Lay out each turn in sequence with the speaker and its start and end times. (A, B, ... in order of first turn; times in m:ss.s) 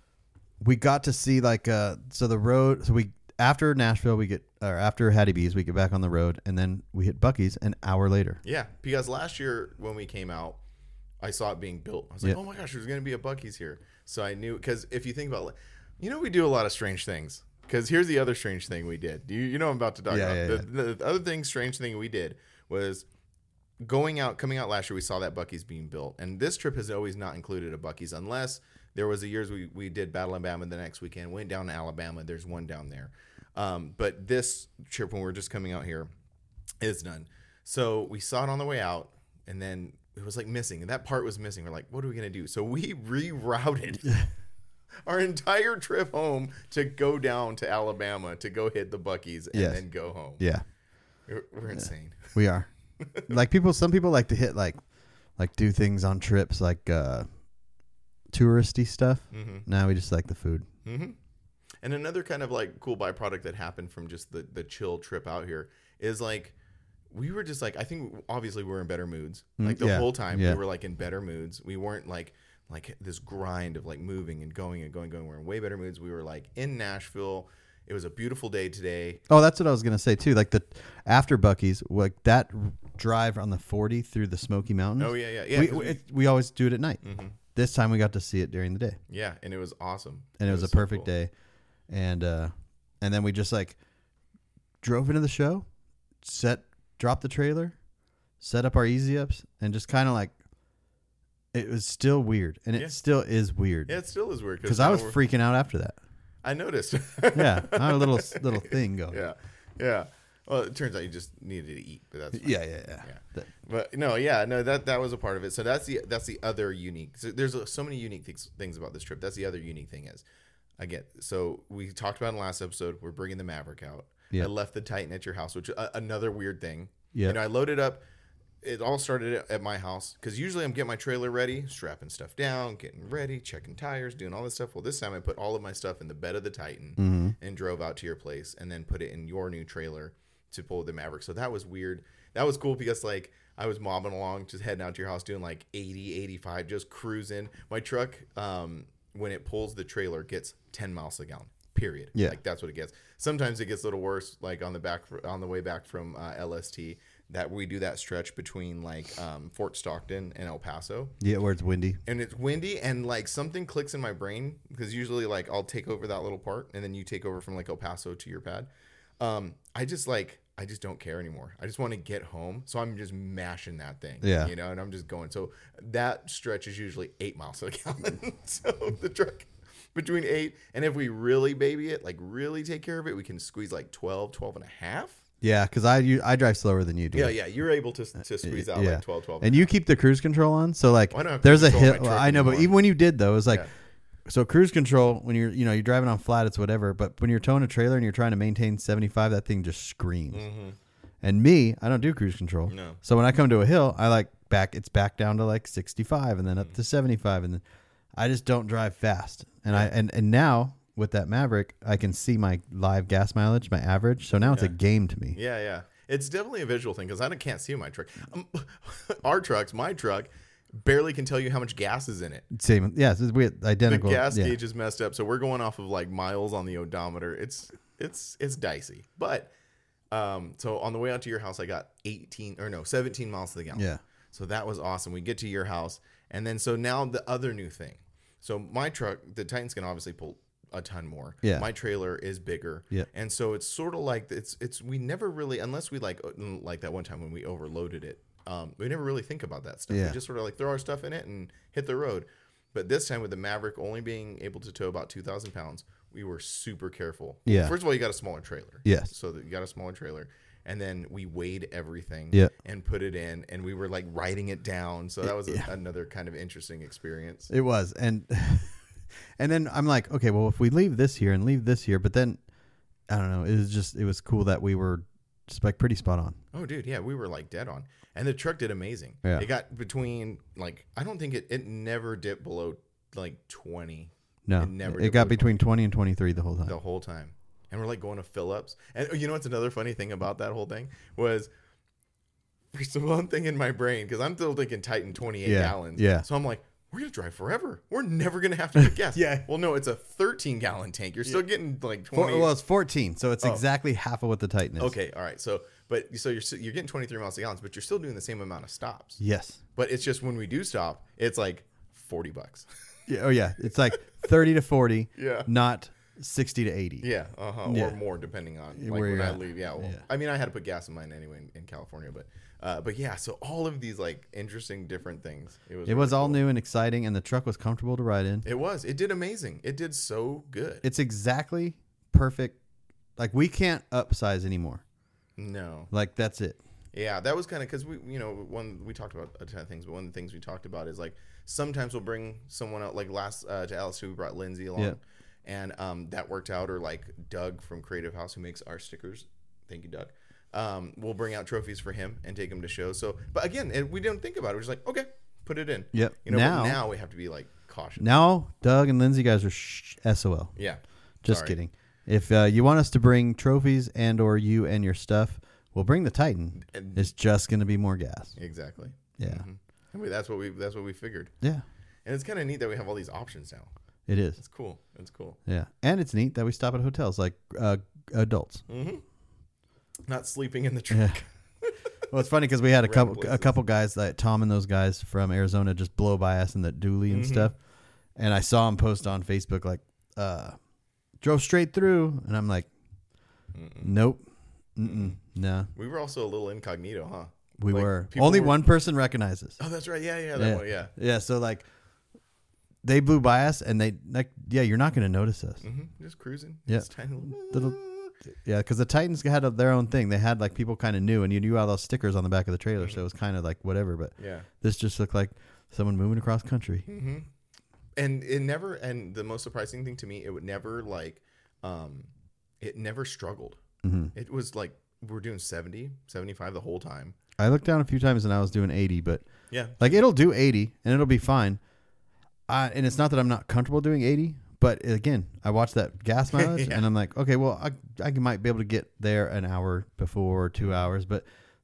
0:00.6-0:08.4 A
0:08.4-0:10.6 B
0:11.2-0:23.1 B
0:20.1-0:20.7 A
0:23.8-0:36.1 B
0:36.8-0:44.2 B
0:45.0-0:50.4 B
0:49.5-0:49.8 A
0:50.4-0:50.6 A
0:51.3-0:52.4 B
0:52.4-0:52.7 A
0:53.0-0:53.4 B
0:53.2-0:54.8 A
0:55.4-0:57.3 A
0:58.3-1:00.7 A
0:59.3-0:59.6 B
1:00.8-1:01.2 B
1:01.8-1:06.6 B
1:07.1-1:19.2 B
1:09.6-1:10.6 A
1:19.3-1:27.0 A
1:25.0-1:26.0 B
1:27.0-1:27.4 B
1:27.6-1:29.0 A
1:29.1-1:31.1 B
1:30.4-1:31.3 A
1:31.9-1:33.8 A
1:34.8-1:35.6 A
1:36.2-1:37.8 A
1:38.4-1:40.3 A
1:41.5-1:44.0 A
1:43.9-1:45.2 B
1:44.6-1:46.0 A
1:46.4-2:00.2 B
1:47.3-1:49.2 A
1:52.3-1:53.4 A
2:00.8-2:08.0 B
2:08.6-2:41.1 B
2:17.0-2:17.4 A
2:41.2-2:42.0 A
2:42.1-2:48.7 B
2:49.2-3:05.2 B
2:54.2-2:54.5 A
3:05.4-3:07.4 A
3:07.1-3:09.7 B
3:08.4-3:13.7 A
3:11.1-3:12.8 B
3:14.3-3:20.5 A
3:20.3-3:20.8 B
3:21.2-3:27.6 A
3:22.7-3:23.0 B
3:28.2-3:35.4 A
3:34.4-3:34.8 B
3:35.3-3:42.5 B
3:42.5-3:44.6 A
3:43.9-3:49.5 B
3:50.1-4:27.5 B
3:53.8-3:54.0 A
4:01.4-4:01.7 A
4:09.9-4:10.2 A
4:17.5-4:17.8 A
4:18.8-4:19.1 A
4:25.2-4:25.7 A
4:27.5-4:28.8 A
4:29.4-4:32.4 A
4:33.1-4:36.4 A
4:36.5-4:45.5 B
4:44.5-4:46.8 A
4:46.6-4:51.5 B
4:52.7-5:02.5 B
4:55.4-4:56.3 A
4:58.8-4:59.5 A
5:02.1-5:05.0 A
5:04.8-5:09.2 B
5:09.2-5:09.6 A
5:09.8-5:12.7 B
5:13.1-5:17.1 A
5:15.2-5:15.5 B
5:17.0-5:26.4 B
5:17.7-5:18.0 A
5:18.8-5:20.0 A
5:25.9-5:28.5 A
5:28.4-5:30.8 B
5:30.8-5:32.6 A
5:33.2-5:34.8 A
5:35.4-5:35.9 B
5:35.9-5:36.6 A
5:36.9-5:58.2 B
5:55.9-5:56.8 A
5:58.0-6:00.5 A
6:00.6-6:01.6 B
6:01.2-6:08.4 A
6:06.6-6:07.1 B
6:08.4-6:11.3 B
6:09.2-6:09.5 A
6:12.1-6:13.7 B
6:14.1-6:14.4 A
6:14.4-6:15.4 B
6:15.5-6:18.6 A
6:18.7-6:19.0 B
6:20.1-6:21.9 B
6:20.9-6:21.2 A
6:22.1-6:27.5 A
6:22.8-6:23.5 B
6:27.1-6:27.5 B
6:28.2-6:30.6 A
6:31.2-6:32.7 A
6:33.5-6:33.9 B
6:33.8-6:34.2 A
6:34.8-6:35.7 A
6:34.8-6:35.2 B
6:35.8-6:38.6 B
6:37.6-6:39.6 A
6:39.6-6:40.9 B
6:40.4-6:41.6 A
6:42.8-6:45.6 A
6:45.6-6:48.1 B
6:46.7-6:47.8 A
6:48.4-6:56.9 A
6:54.2-6:54.5 B
6:56.9-6:57.3 B
6:58.0-7:02.1 B
7:02.6-7:03.6 B
7:03.8-7:04.1 A
7:04.1-7:07.2 B
7:07.4-7:09.2 A
7:09.5-7:10.0 B
7:09.8-7:11.6 A
7:12.5-7:21.2 A
7:16.3-7:16.8 B
7:20.6-7:20.9 B